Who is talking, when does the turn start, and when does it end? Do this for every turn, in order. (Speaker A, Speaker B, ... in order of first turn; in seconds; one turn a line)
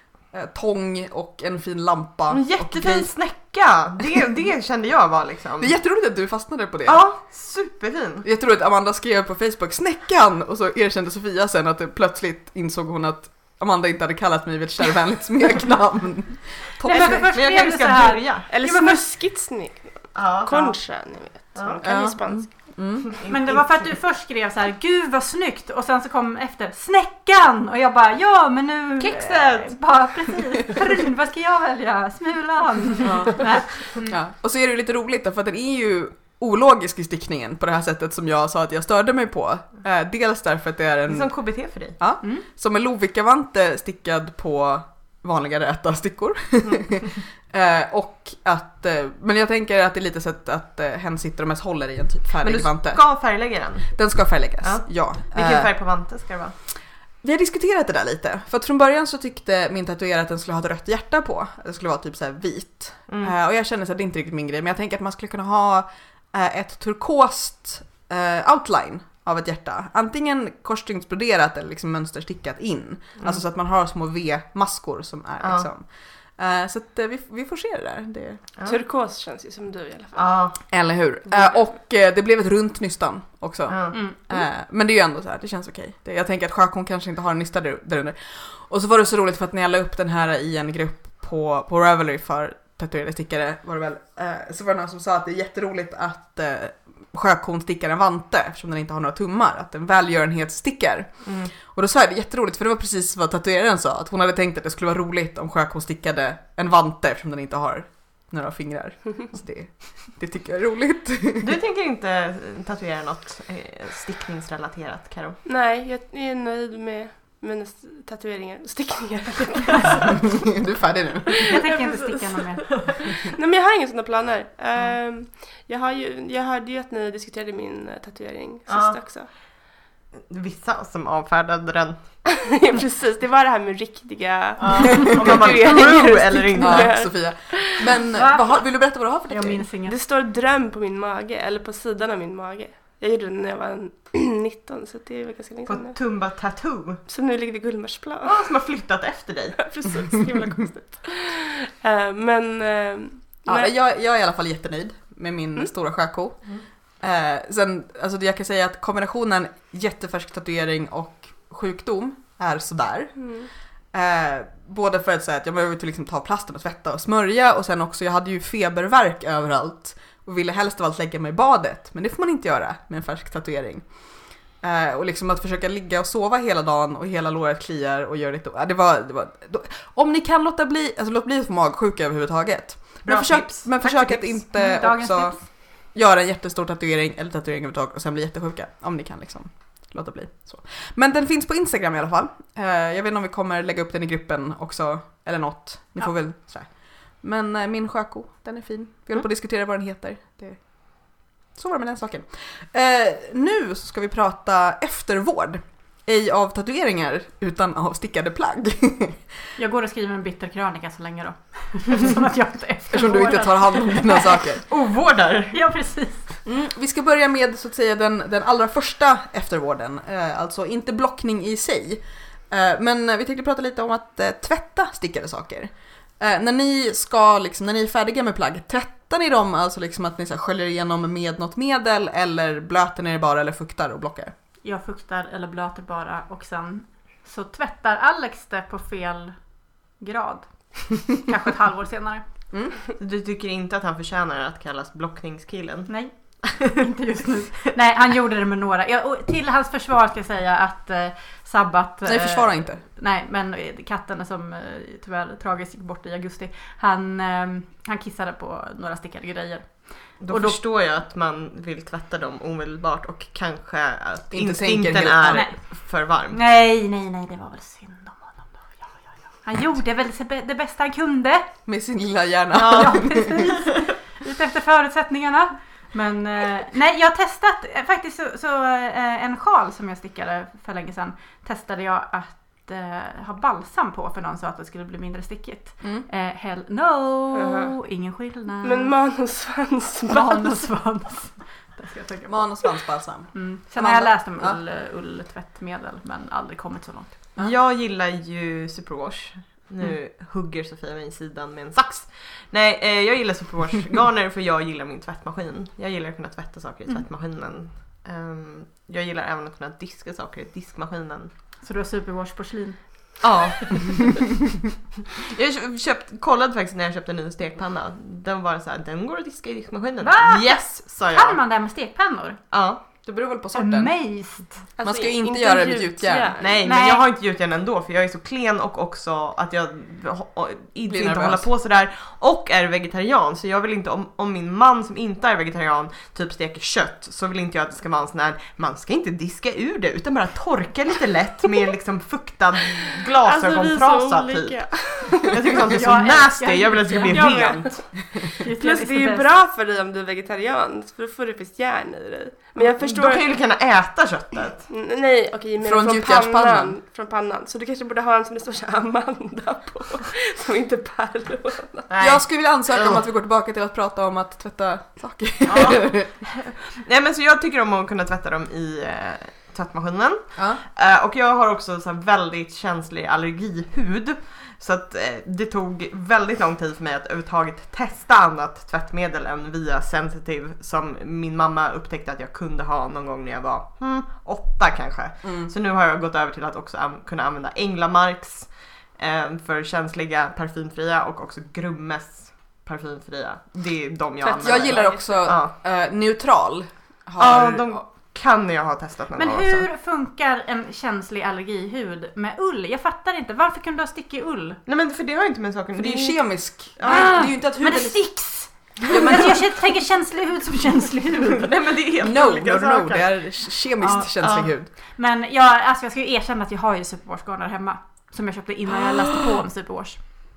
Speaker A: 0.3-3.1
Speaker B: 2.3-5.7
Speaker A: 5.6-7.0
Speaker B: 6.8-8.2
Speaker A: 8.2-17.3
Speaker C: 16.8-19.1
Speaker B: 16.9-18.5
Speaker D: 18.5-22.5
Speaker B: 20.1-20.8
Speaker B: 21.5-21.8
Speaker A: 21.8-23.1
Speaker B: 23.0-23.9
Speaker C: 23.3-34.1
Speaker B: 29.0-29.8
Speaker A: 33.0-53.0
Speaker B: 41.1-42.0
Speaker B: 46.6-47.0
Speaker B: 52.4-54.0
Speaker A: 53.9-55.7
Speaker B: 54.6-56.5
Speaker A: 57.2-78.4
Speaker B: 63.1-63.3
Speaker D: 78.6-80.4
Speaker B: 80.2-80.6
Speaker A: 80.7-111.5
Speaker B: 83.7-84.0
Speaker C: 83.9-84.2
Speaker B: 101.2-101.5
Speaker B: 111.4-115.4
Speaker D: 115.4-120.6
Speaker A: 120.2-121.5
Speaker D: 121.3-129.3
Speaker C: 121.4-123.1
Speaker B: 128.7-129.0
Speaker B: 130.1-132.0
Speaker D: 132.3-137.9
Speaker B: 134.6-136.9
Speaker A: 136.6-139.6
Speaker C: 138.1-138.7
Speaker C: 139.3-140.0
Speaker D: 139.9-146.0
Speaker B: 145.7-147.0
Speaker D: 147.1-148.5
Speaker B: 148.2-149.7
Speaker D: 149.6-153.7
Speaker A: 153.5-163.3
Speaker D: 163.2-163.5
Speaker A: 163.9-173.9
Speaker A: 174.6-209.3
Speaker B: 183.0-183.8
Speaker C: 183.8-185.4
Speaker C: 209.6-214.6
Speaker A: 212.9-214.6
Speaker B: 214.7-215.6
Speaker C: 215.5-216.4
Speaker A: 216.4-234.3
Speaker C: 234.6-239.3
Speaker C: 240.0-242.2
Speaker A: 242.5-242.8
Speaker B: 243.0-245.9
Speaker C: 245.9-260.6
Speaker A: 252.0-252.8
Speaker B: 260.2-266.4
Speaker A: 264.3-265.5
Speaker C: 265.3-271.5
Speaker A: 271.6-273.4
Speaker B: 272.5-273.1
Speaker C: 272.7-288.9
Speaker D: 287.3-287.8
Speaker D: 288.6-290.7
Speaker C: 290.1-292.8
Speaker A: 292.3-294.6
Speaker C: 293.3-297.1
Speaker B: 297.4-311.3
Speaker C: 311.6-313.2
Speaker B: 313.2-314.2
Speaker B: 315.2-321.4
Speaker C: 320.0-322.4
Speaker B: 322.5-322.8
Speaker A: 323.0-323.9
Speaker C: 323.5-324.6
Speaker D: 324.8-326.5
Speaker A: 324.8-326.3
Speaker B: 326.4-344.7
Speaker C: 326.6-327.0
Speaker A: 330.9-331.5
Speaker D: 343.2-345.4
Speaker B: 345.2-347.8
Speaker C: 345.6-347.6
Speaker D: 347.1-353.3
Speaker C: 348.3-349.3
Speaker B: 352.6-354.7
Speaker D: 354.7-361.9
Speaker A: 355.6-356.7
Speaker B: 361.9-363.0
Speaker A: 362.0-366.2
Speaker B: 365.5-395.5
Speaker A: 385.2-385.5
Speaker D: 394.2-395.1
Speaker A: 394.4-397.8
Speaker B: 397.2-399.6
Speaker C: 399.1-404.6
Speaker B: 404.6-407.2
Speaker A: 405.8-408.2
Speaker C: 406.9-411.5
Speaker A: 408.9-409.4
Speaker B: 411.4-414.5
Speaker A: 412.0-414.7
Speaker C: 414.9-420.1